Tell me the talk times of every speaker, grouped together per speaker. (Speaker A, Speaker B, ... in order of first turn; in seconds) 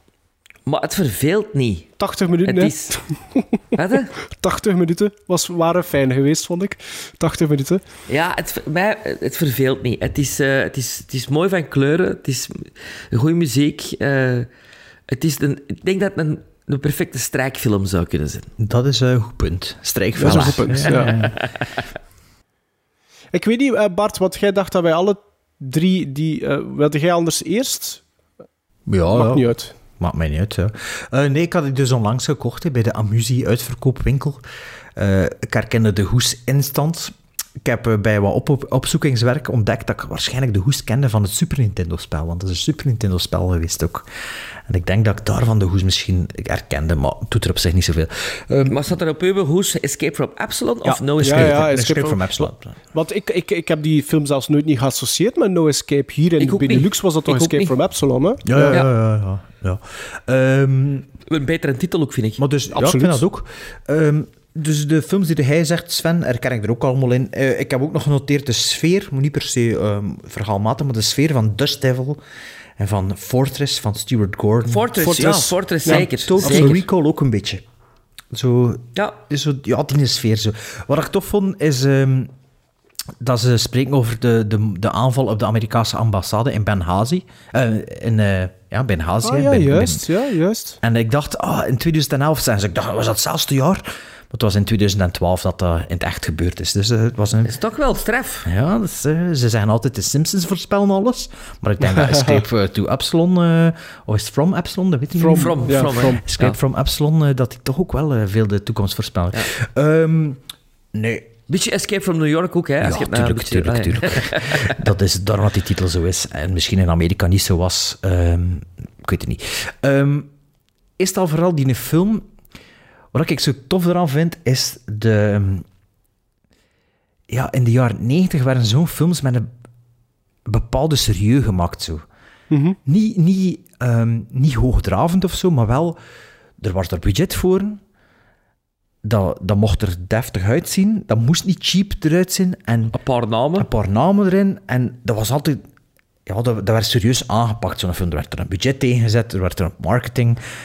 Speaker A: 0.7-2.9, 3.7-4.1, 8.1-14.5, 15.1-18.5, 20.9-21.6, 48.7-51.6, 56.4-57.7, 61.3-62.4, 74.7-76.8, 97.4-98.5, 105.3-106.6, 111.5-114.8, 142.9-143.7
Speaker B: 2.0-3.4, 4.3-7.8, 20.2-21.1, 23.3-28.0, 29.1-29.7, 51.2-58.8, 62.7-63.2, 75.0-76.8, 89.2-90.8, 101.9-102.4, 105.2-106.2, 132.5-132.8
Speaker C: 18.6-21.3, 28.9-34.4, 35.0-44.0, 44.7-48.8, 50.8-52.8, 58.5-61.1, 62.4-72.2, 72.8-77.6, 78.3-82.3, 83.2-90.0, 90.8-97.5, 98.4-110.4, 110.9-111.3, 112.8-120.3, 121.0-122.2, 123.1-125.7, 127.3-129.5, 130.5-132.0, 132.8-136.0, 136.6-137.8, 139.0-142.9, 143.6-145.6, 146.2-150.4